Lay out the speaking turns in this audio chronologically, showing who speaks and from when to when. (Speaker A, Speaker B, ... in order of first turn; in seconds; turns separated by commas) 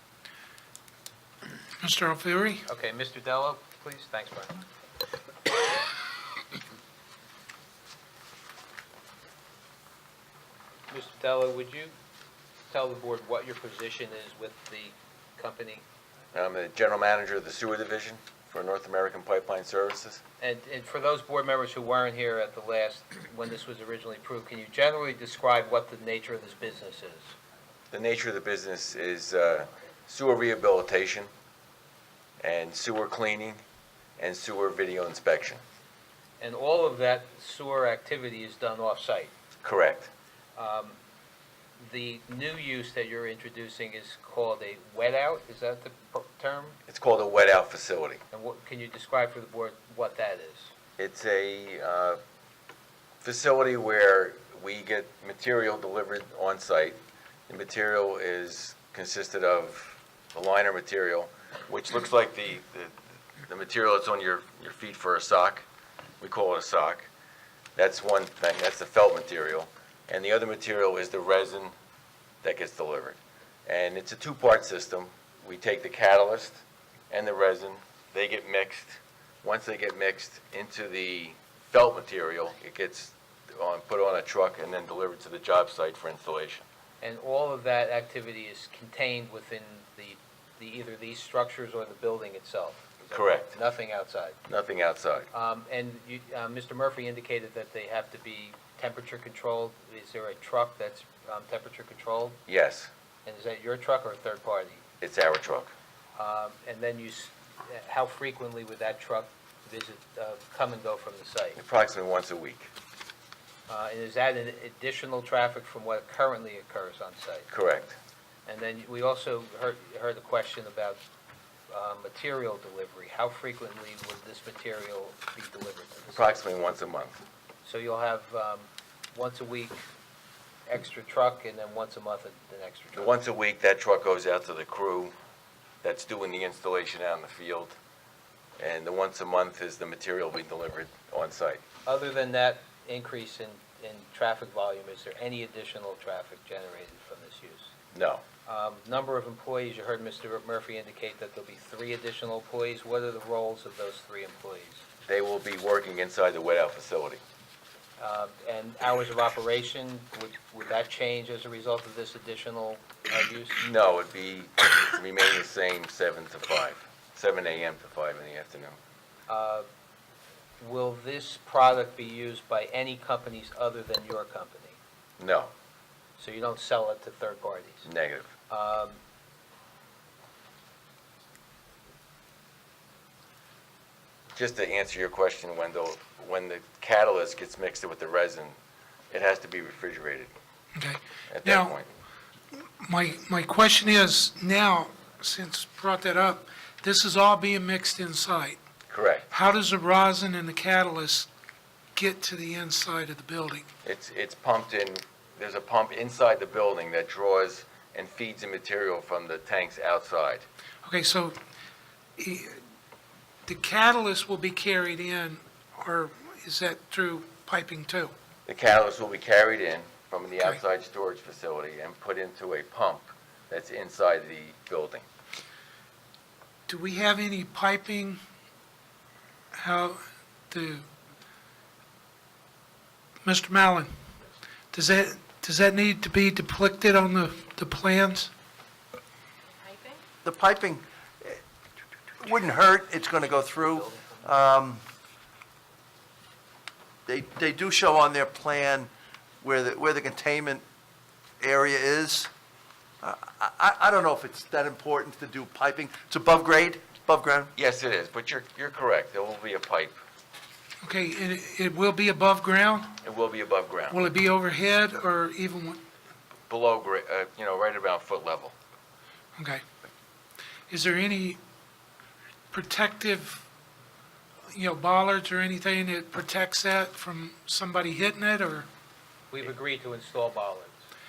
Speaker A: 1.8-2.6, Speaker B: 2.7-4.6, Speaker B: 10.9-11.9, Speaker B: 12.7-15.8, Speaker C: 16.3-20.2, Speaker B: 20.4-27.3, Speaker C: 27.9-31.3, Speaker C: 32.4-33.6, Speaker C: 34.2-35.6, Speaker B: 36.4-39.3, Speaker C: 39.6-40.1, Speaker B: 40.6-41.0, Speaker B: 41.8-46.8, Speaker C: 46.9-48.2, Speaker B: 48.3-50.7, Speaker C: 51.0-52.2, Speaker C: 53.2-65.7, Speaker C: 66.2-67.1, Speaker C: 67.8-71.7, Speaker C: 72.4-86.7, Speaker B: 87.0-94.4, Speaker C: 93.1-93.6, Speaker C: 94.5-95.3, Speaker B: 95.3-102.4, Speaker C: 102.5-102.9, Speaker B: 103.3-104.8, Speaker C: 105.0-105.7, Speaker B: 106.2-111.6, Speaker C: 111.6-112.7, Speaker B: 113.7-117.5, Speaker C: 117.5-118.0, Speaker B: 118.5-121.0, Speaker B: 121.7-126.3, Speaker C: 126.1-127.2, Speaker B: 127.7-129.8, Speaker B: 130.7-133.1, Speaker C: 132.9-135.1, Speaker C: 135.8-137.8, Speaker C: 138.6-141.6, Speaker B: 141.9-147.7, Speaker C: 147.9-148.2, Speaker B: 148.5-154.8, Speaker C: 155.1-157.2, Speaker B: 158.0-163.7, Speaker C: 163.6-168.8, Speaker B: 169.3-169.7, Speaker B: 170.6-174.8, Speaker C: 175.2-175.5, Speaker B: 176.2-177.9, Speaker C: 177.8-178.3, Speaker B: 178.5-179.0, Speaker C: 184.3-188.6, Speaker C: 189.1-190.3, Speaker A: 190.8-191.8, Speaker C: 191.3-191.9, Speaker A: 192.5-198.6, Speaker C: 198.9-199.3, Speaker A: 199.3-201.3, Speaker A: 202.0-203.7, Speaker C: 203.8-210.5, Speaker A: 210.8-211.4, Speaker A: 212.2-212.6, Speaker A: 213.5-218.1, Speaker C: 218.5-225.1, Speaker A: 226.7-228.2, Speaker A: 229.5-230.9, Speaker A: 233.2-233.9, Speaker A: 234.7-238.3, Speaker D: 240.2-241.4, Speaker D: 242.2-244.8, Speaker B: 243.2-244.2, Speaker D: 247.1-248.9, Speaker D: 249.4-250.7, Speaker D: 251.4-252.3, Speaker D: 253.0-257.5, Speaker C: 257.6-260.0, Speaker A: 260.8-262.9, Speaker C: 263.0-264.0, Speaker A: 263.9-265.8, Speaker C: 266.5-268.5, Speaker A: 269.4-269.6, Speaker A: 270.7-271.4, Speaker A: 272.5-273.4, Speaker A: 274.5-278.7, Speaker B: 279.3-280.8